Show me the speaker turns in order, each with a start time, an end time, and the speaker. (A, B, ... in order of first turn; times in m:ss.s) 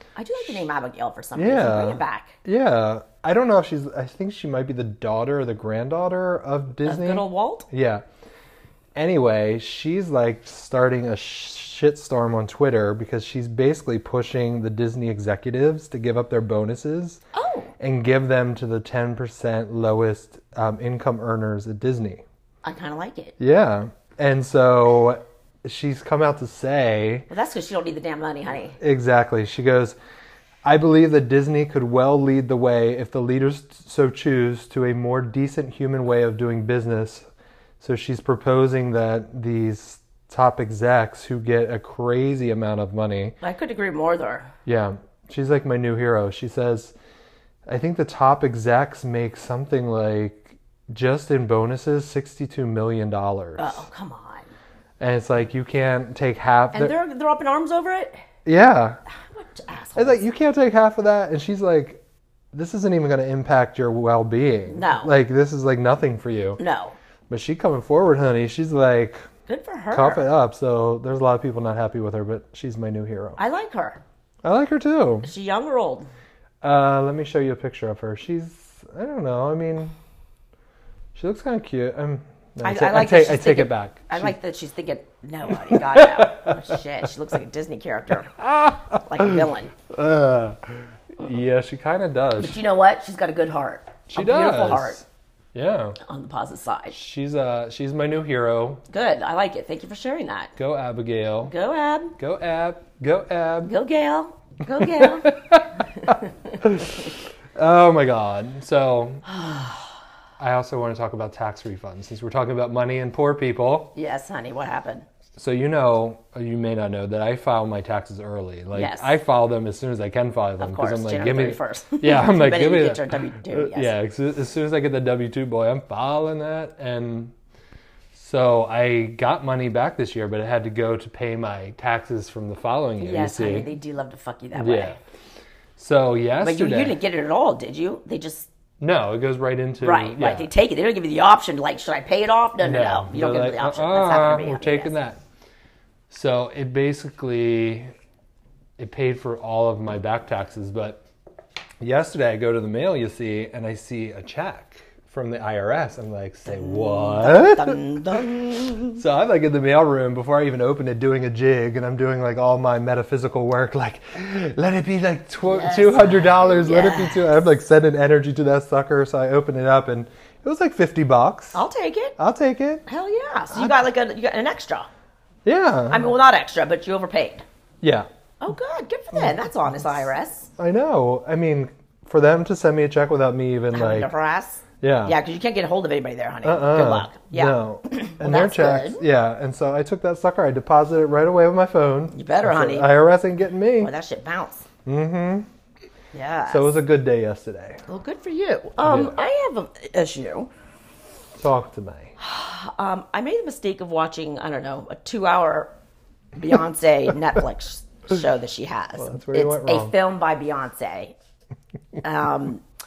0:00.2-0:02.4 A
0:01.4-0:08.0 B
0:06.8-0:07.7 A
0:09.0-0:17.2 B
0:17.3-0:17.7 A
0:17.8-0:22.2 B
0:22.6-0:23.4 A
0:23.4-0:27.3 B
0:27.3-0:28.8 A
0:28.8-0:30.0 B
0:30.6-0:37.3 B
0:37.8-0:43.4 B
0:43.4-0:44.5 A
0:44.6-0:47.0 B
0:47.7-0:53.9 B
0:53.6-0:54.5 A
0:55.0-0:57.0 B
0:56.7-0:58.2 A
0:58.4-0:59.0 B
0:59.1-1:00.2 A
1:00.0-1:02.0 B
1:02.5-1:06.6 B
1:04.7-1:05.1 A
1:06.6-1:07.0 A
1:07.3-1:09.2 B
1:09.5-1:10.3 A
1:09.9-1:13.4 B
1:13.4-1:14.0 A
1:14.4-1:15.3 B
1:15.2-1:16.1 A
1:16.6-1:20.0 B
1:21.2-1:24.4 B
1:22.6-1:29.7 A
1:25.5-1:26.8 B
1:28.4-1:32.6 B
1:32.4-1:35.0 A
1:34.1-1:35.0 B
1:35.5-1:36.0 B
1:36.0-1:37.0 A
1:36.9-1:38.8 B
1:38.9-1:40.5 A
1:40.6-1:41.5 B
1:41.4-1:42.2 A
1:42.2-1:43.7 B
1:43.6-1:46.6 A
1:44.7-1:49.3 B
1:50.4-1:53.9 B
1:54.0-1:55.1 A
1:55.4-2:07.4 B
1:58.7-1:59.2 A
2:00.6-2:03.9 A
2:08.1-2:13.7 B
2:13.0-2:15.0 A
2:14.6-2:15.0 B
2:15.8-2:17.0 B
2:16.4-2:18.5 A
2:18.8-2:20.5 B
2:19.8-2:24.9 A
2:22.6-2:25.2 B
2:26.1-2:27.9 B
2:28.8-2:31.0 B
2:31.8-2:38.3 B
2:36.5-2:39.0 A
2:38.9-2:51.6 B
2:45.5-2:47.4 A
2:51.5-2:52.2 A
2:52.2-2:52.8 B
2:52.9-2:54.9 A
2:55.4-2:56.1 B
2:55.9-2:57.4 A
2:57.8-2:58.1 B
2:58.4-3:00.5 A
3:00.6-3:04.1 B
3:03.7-3:09.0 A
3:04.8-3:05.2 B
3:06.4-3:13.9 B
3:12.1-3:12.9 A
3:13.8-3:14.7 A
3:14.8-3:15.5 B
3:16.1-3:16.8 A
3:16.5-3:17.8 B
3:17.9-3:20.5 A
3:18.8-3:19.2 B
3:21.4-3:22.1 B
3:22.2-3:25.7 A
3:26.4-3:31.2 A
3:29.0-3:30.0 B
3:32.0-3:32.6 A